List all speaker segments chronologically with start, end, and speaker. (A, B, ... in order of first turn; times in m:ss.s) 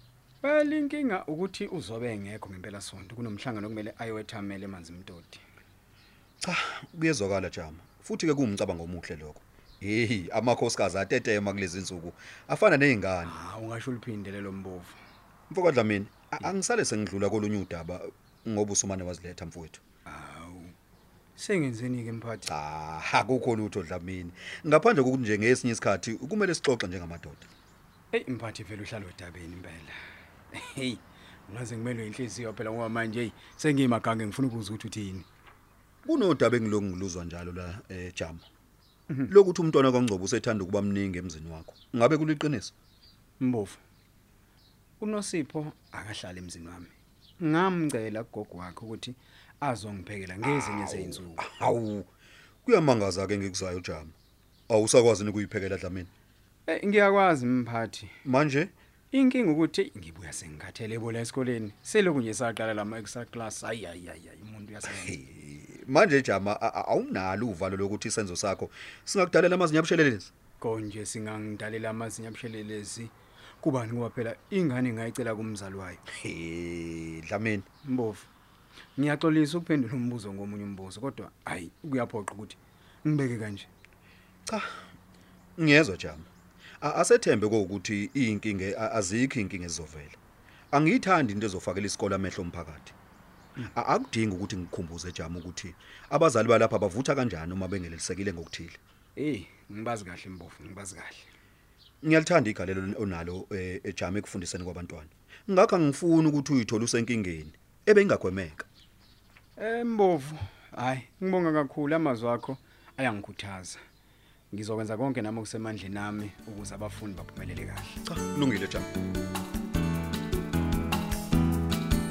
0:00.4-0:05.4 A
0:06.4-0:13.3 B
0:13.2-0:15.0 A
0:15.5-0:19.8 B
0:20.0-0:20.7 A
0:21.4-0:22.5 A
0:22.5-0:27.5 B
0:28.1-0:30.0 A
0:30.5-0:35.2 A
0:36.0-0:38.4 B
0:39.3-0:42.7 B
0:43.4-0:43.8 A
0:45.0-0:51.4 A
0:50.4-0:52.1 B
0:52.6-0:54.1 B
0:54.7-0:56.1 B
0:56.7-0:58.1 A
0:58.2-0:58.7 B
0:59.1-1:05.2 A
1:04.9-1:10.3 B
1:10.6-1:16.0 A
1:16.1-1:17.7 B
1:17.8-1:18.3 A
1:19.0-1:23.7 A
1:25.6-1:26.3 B
1:26.8-1:30.2 B
1:30.7-1:32.9 B
1:33.7-1:38.8 B
1:39.2-1:41.2 A
1:42.0-1:48.6 B
1:49.6-1:53.8 A
1:54.5-1:58.0 A
1:58.0-1:58.9 B